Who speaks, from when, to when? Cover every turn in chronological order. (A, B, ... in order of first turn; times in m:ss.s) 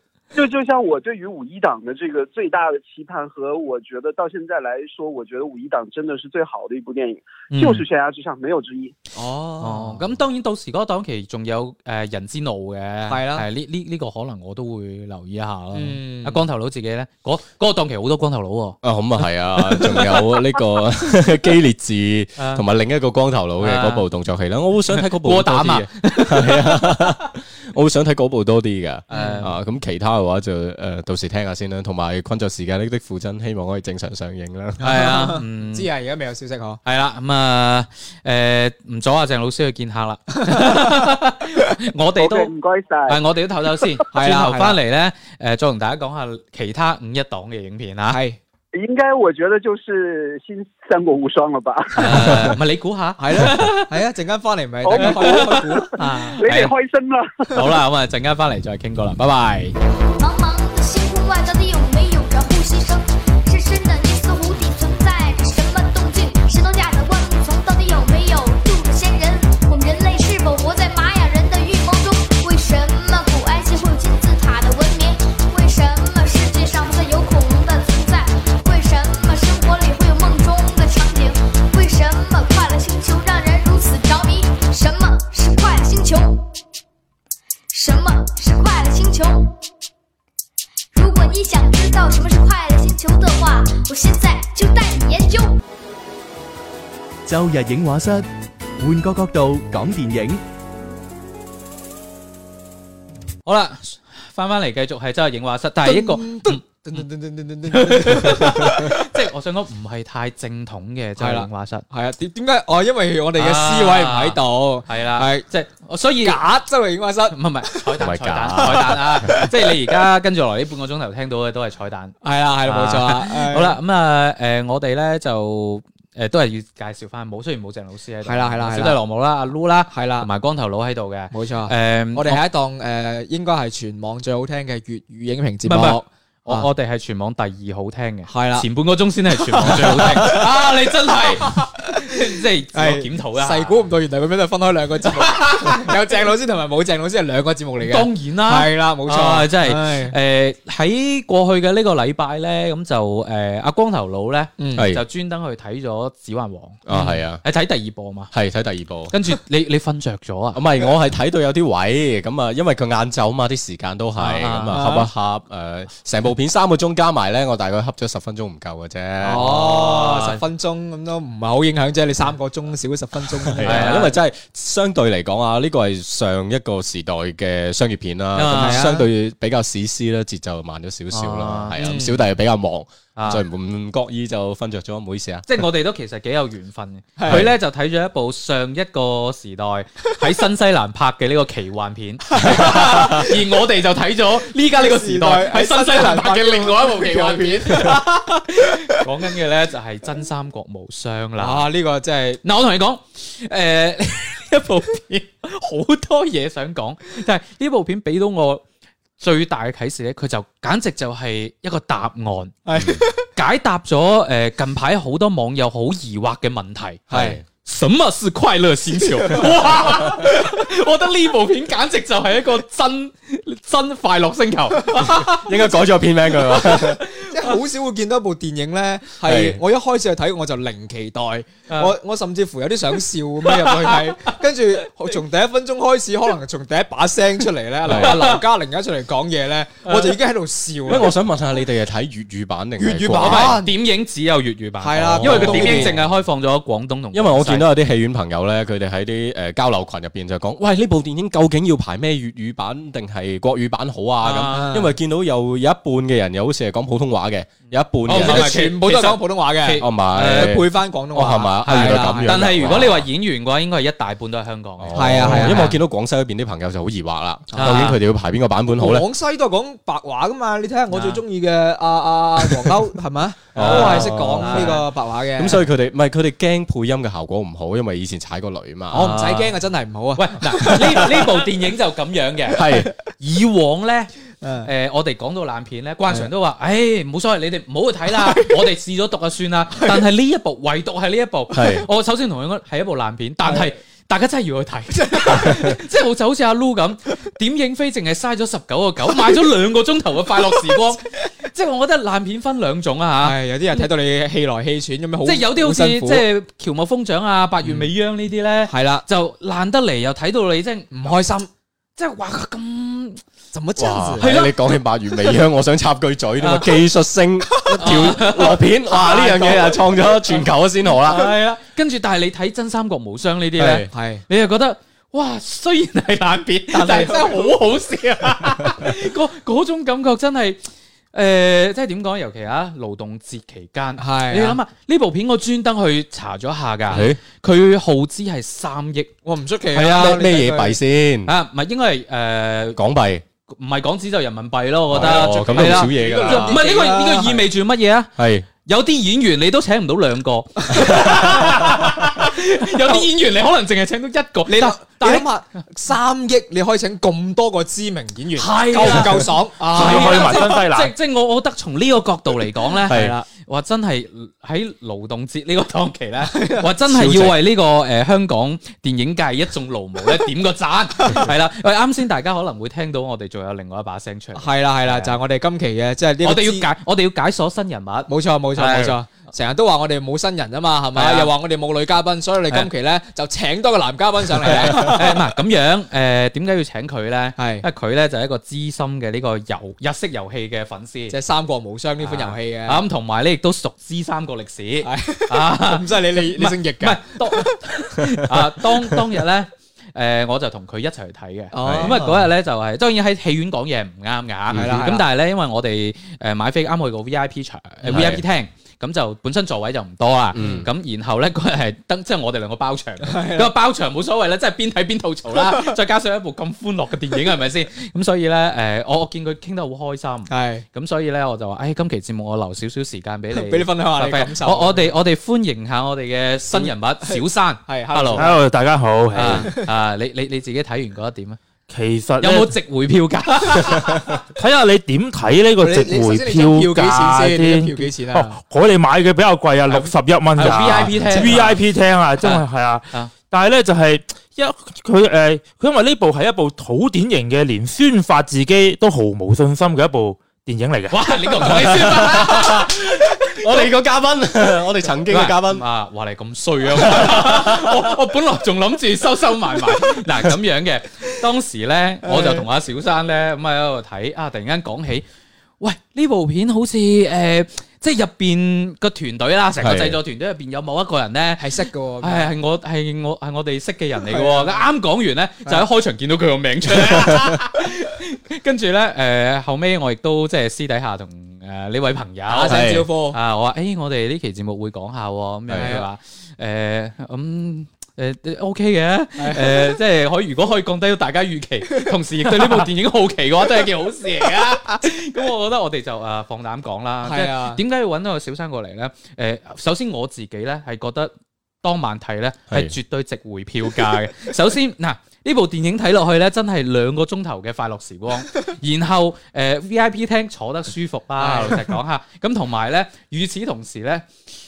0:00.3-0:09.0 A
0:07.5-0:07.8 B
0:09.1-0:10.1 C
0:09.6-0:18.8 B
0:13.1-0:13.5 C
0:15.7-0:16.4 C
0:18.8-0:34.8 D
0:22.4-0:22.6 B
0:23.6-0:24.0 B
0:24.9-0:27.1 B
0:29.1-0:29.5 C
0:29.1-0:29.5 B
0:34.8-0:36.8 C
0:34.8-0:35.9 B
0:36.8-0:42.5 B
0:40.4-0:41.1 C
0:42.2-0:43.2 A
0:43.1-0:48.2 B
0:44.1-0:44.8 C
0:48.1-0:48.4 C
0:48.7-0:52.5 A
0:52.0-0:53.9 B
0:53.2-0:55.9 C
0:54.8-0:57.6 A
0:54.9-0:56.7 B
0:57.5-0:59.8 B
1:00.2-1:26.4 E
1:27.7-1:29.5 E
1:30.9-1:35.6 E
1:37.2-1:40.4 F
1:43.4-1:47.0 B
1:45.8-1:49.1 C
1:47.7-1:51.8 B
1:51.2-1:55.5 C
1:53.4-1:56.4 B
1:56.2-1:58.0 C
1:57.3-2:12.4 B
1:58.0-1:59.4 D
1:58.6-1:59.8 C
2:02.2-2:03.8 C
2:08.2-2:09.0 C
2:09.9-2:10.3 C
2:11.3-2:16.7 C
2:15.6-2:23.8 B
2:18.3-2:18.7 C
2:19.3-2:22.2 C
2:22.7-2:30.2 C
2:25.2-2:25.9 B
2:27.8-2:38.3 B
2:34.6-2:34.9 C
2:34.8-2:35.0 D
2:36.8-2:37.4 D
2:38.3-2:39.1 D
2:39.1-2:40.6 B
2:40.5-2:49.5 D
2:44.2-2:45.0 B
2:44.7-2:45.0 C
2:49.2-2:54.1 C
2:49.3-2:50.4 B
2:53.4-3:05.5 D
2:53.6-2:54.2 B
2:58.3-2:58.8 B
2:58.5-2:59.1 C
3:01.1-3:01.8 B
3:01.8-3:02.2 C
3:03.2-3:03.4 B
3:05.5-3:21.7 B
3:07.2-3:07.5 C
3:07.3-3:07.5 D
3:12.4-3:13.2 C
3:14.7-3:18.0 C
3:21.4-3:22.4 C
3:22.4-3:28.6 B
3:29.2-3:32.6 B
3:32.6-3:33.2 C
3:33.3-3:37.0 B
3:37.1-3:37.4 D
3:37.1-3:37.4 C
3:37.6-3:45.5 B
3:39.3-3:39.6 C
3:45.1-3:47.0 D
3:46.6-3:47.5 B
3:47.2-4:01.1 C
3:49.2-3:49.6 D
3:51.7-3:51.9 B
3:53.4-3:54.3 B
3:57.9-3:58.2 D
3:57.9-3:58.4 B
3:59.8-4:00.1 B
4:00.9-4:03.6 D
4:02.8-4:03.7 C
4:03.1-4:07.7 B
4:04.8-4:05.9 C
4:05.2-4:06.0 D
4:07.1-4:18.5 D
4:14.2-4:14.7 B
4:14.4-4:14.9 C
4:18.0-4:20.6 B
4:18.1-4:22.9 C
4:19.8-4:23.1 D
4:21.2-4:25.8 B
4:24.8-4:29.0 D
4:24.9-4:25.8 C
4:27.5-4:28.0 C
4:27.6-4:28.0 B
4:28.7-4:35.7 C
4:30.9-4:31.2 B
4:33.5-4:34.8 D
4:33.6-4:34.8 B
4:35.4-4:39.1 D
4:38.9-4:41.4 C
4:38.9-4:39.5 B
4:40.2-4:42.6 B
4:42.5-4:42.9 D
4:42.6-4:42.9 C
4:43.2-4:44.1 B
4:44.4-4:44.7 C
4:44.6-5:03.4 B
4:48.2-4:48.5 C
4:51.5-4:51.8 D
4:53.4-4:53.7 C
4:54.9-4:55.7 C
5:03.2-5:06.2 C
5:05.2-5:11.1 B
5:07.6-5:07.9 C
5:08.6-5:09.0 C
5:10.9-5:11.5 C
5:12.0-5:13.2 B
5:13.5-5:14.3 C
5:13.8-5:21.3 D
5:14.2-5:14.6 B
5:16.4-5:16.8 B
5:17.5-5:18.5 C
5:17.8-5:30.6 B
5:19.1-5:19.7 C
5:23.6-5:23.9 D
5:23.9-5:24.2 C
5:26.7-5:27.6 C
5:31.1-5:39.1 B
5:34.0-5:34.6 C
5:36.9-5:37.2 D
5:39.2-5:40.8 C
5:39.7-5:40.2 B
5:39.9-5:41.3 D
5:41.2-5:42.8 B
5:42.8-5:43.2 D
5:43.5-5:48.1 B
5:44.9-5:46.6 D
5:44.9-5:47.5 C
5:48.2-5:48.5 D
5:48.6-5:55.3 B
5:50.7-5:51.7 C
5:51.0-5:51.4 D
5:54.4-6:00.6 C
5:58.4-6:15.2 B
5:59.7-6:00.9 G
6:02.8-6:03.2 C
6:02.9-6:03.1 D
6:06.2-6:06.7 C
6:06.9-6:07.4 D
6:14.4-6:16.7 C
6:16.2-6:19.0 B
6:18.1-6:25.2 C
6:20.9-6:21.3 B
6:24.4-6:31.2 B
6:27.4-6:27.6 C
6:31.1-6:32.8 C
6:32.0-7:08.3 B
6:34.8-6:37.6 C
6:41.5-6:42.3 C
6:41.6-6:42.0 D
6:44.5-6:44.8 D
6:44.5-6:45.0 C
6:47.8-6:48.2 D
6:50.3-6:50.7 D
6:53.0-6:53.5 C
6:55.3-6:55.8 C
7:00.3-7:00.6 C
7:03.3-7:04.9 C
7:06.5-7:08.4 C
7:08.2-7:09.5 G
7:09.1-7:11.4 B
7:09.2-7:09.6 C
7:11.7-7:12.5 G
7:12.2-7:14.1 B
7:14.3-7:31.5 G
7:15.6-7:18.4 C
7:20.4-7:21.6 B
7:20.6-7:21.5 C
7:22.2-7:23.1 B
7:30.9-7:33.4 B
7:31.7-7:35.6 D
7:35.1-7:45.0 B
7:36.9-7:37.5 D
7:42.0-7:42.4 C
7:45.6-7:51.5 B
7:49.6-7:50.0 D
7:51.4-7:52.3 C
7:52.0-8:21.1 B
7:54.1-7:54.6 C
8:02.3-8:03.2 C
8:02.5-8:02.8 D
8:05.6-8:05.8 C
8:09.2-8:09.8 C
8:11.8-8:12.7 C
8:17.0-8:17.6 C
8:21.6-8:34.0 B
8:31.2-8:31.6 C